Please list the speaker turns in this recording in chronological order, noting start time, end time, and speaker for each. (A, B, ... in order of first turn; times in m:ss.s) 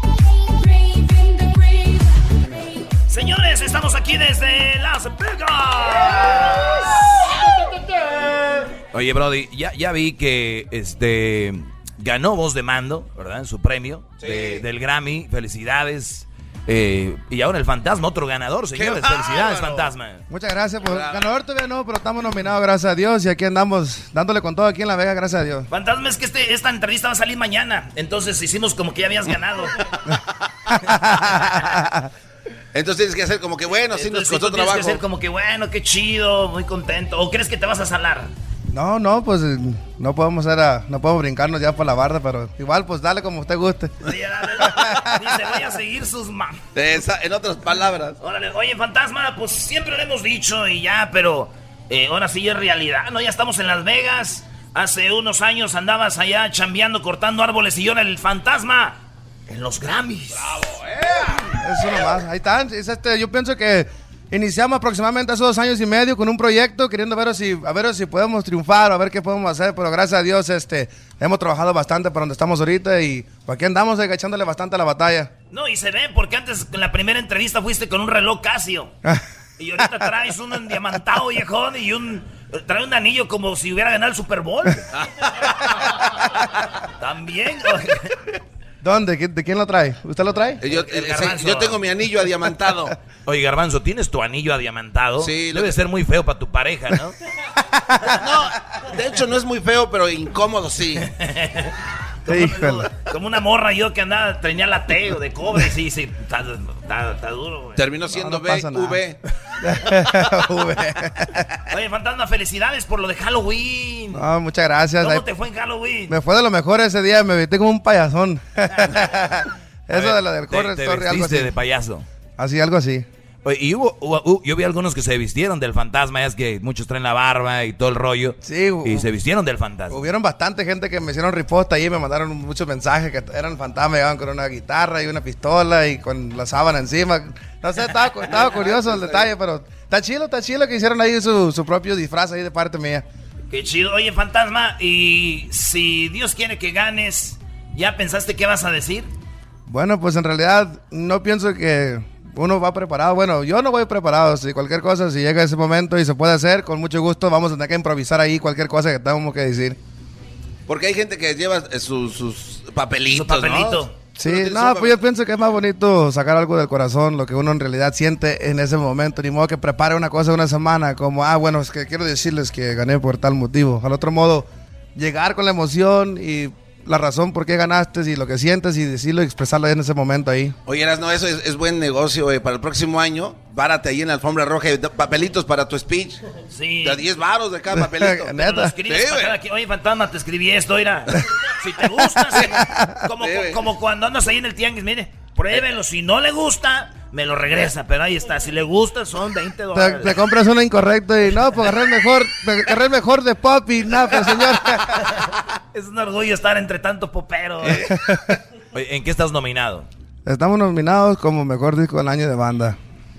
0:03.1-0:07.0 A
0:08.9-0:20.2 B
0:14.2-0:14.6 C
0:18.7-0:19.9 C
0:20.3-0:25.7 D
0:20.8-0:21.3 C
0:25.7-0:29.8 A
0:30.7-0:32.1 D
0:32.7-0:35.0 C
0:33.9-0:38.3 A
0:38.7-0:43.9 D
0:44.0-0:46.6 A
0:44.7-0:45.2 D
0:46.7-0:48.2 C
0:48.2-1:00.6 A
1:00.4-1:01.5 C
1:01.6-1:15.3 D
1:15.5-1:18.9 A
1:19.6-1:24.9 A
1:24.9-1:25.5 C
1:27.0-1:28.1 A
1:28.8-1:30.6 D
1:30.6-1:33.0 C
1:30.7-1:31.8 A
1:33.2-1:37.1 B
1:35.2-1:35.8 C
1:38.2-1:41.1 C
1:41.2-1:41.7 A
1:42.2-1:47.8 A
1:42.3-1:42.9 D
1:47.8-1:49.2 C
1:48.1-1:51.4 D
1:51.7-1:54.2 A
1:54.1-1:55.2 D
1:55.0-1:56.1 A
1:56.1-2:01.5 D
1:59.9-2:02.0 B
2:02.4-2:03.0 D
2:03.4-2:10.0 B
2:08.4-2:09.1 D
2:09.9-2:23.0 D
2:18.4-2:19.2 C
2:23.5-2:29.1 A
2:29.7-2:39.8 D
2:40.7-2:45.0 C
2:43.1-2:43.9 A
2:44.2-3:00.6 D
3:00.6-3:06.2 C
3:06.5-3:07.0 A
3:06.8-3:09.4 C
3:07.7-3:08.7 D
3:08.4-3:20.2 A
3:12.4-3:13.0 D
3:13.2-3:13.6 C
3:19.7-3:25.0 D
3:25.7-3:27.8 A
3:28.7-3:29.9 B
3:30.2-3:32.8 D